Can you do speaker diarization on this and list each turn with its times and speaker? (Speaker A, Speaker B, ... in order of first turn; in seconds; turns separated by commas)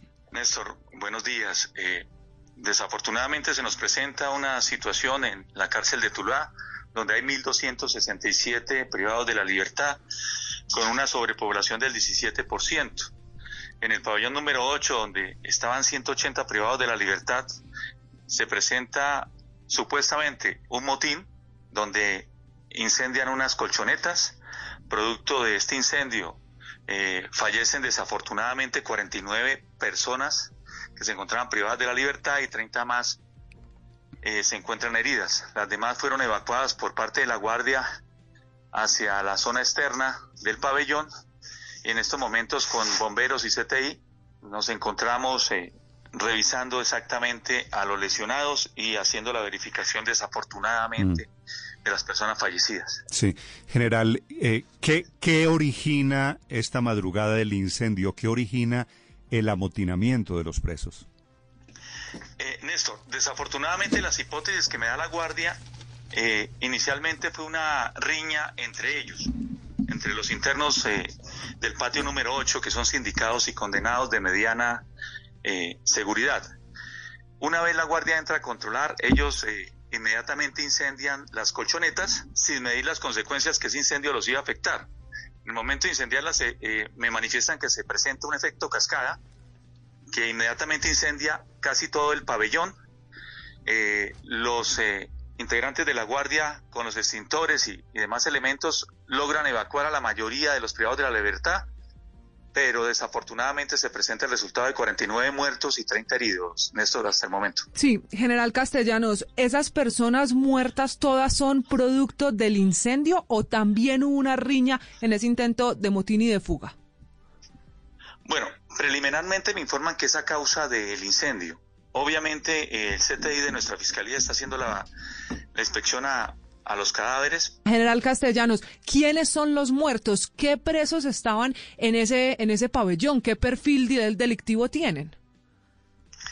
Speaker A: 0.3-2.1, Speaker A: 2.6-10.0, Speaker A: 10.7-13.1, Speaker A: 13.8-17.6, Speaker A: 18.3-24.4, Speaker A: 24.9-33.2, Speaker A: 34.2-37.9, Speaker A: 38.7-41.1, Speaker A: 41.8-51.3, Speaker A: 51.8-53.0, Speaker B: 53.1-61.1, Speaker A: 62.4-65.6, Speaker A: 66.1-69.3, Speaker A: 69.9-74.9, Speaker A: 75.4-76.5, Speaker A: 77.4-84.9, Speaker A: 85.4-89.2, Speaker A: 90.1-92.8, Speaker A: 93.7-101.7, Speaker A: 102.5-107.7, Speaker C: 107.8-116.8, Speaker A: 118.2-124.9, Speaker A: 125.5-127.6, Speaker C: 127.7-135.2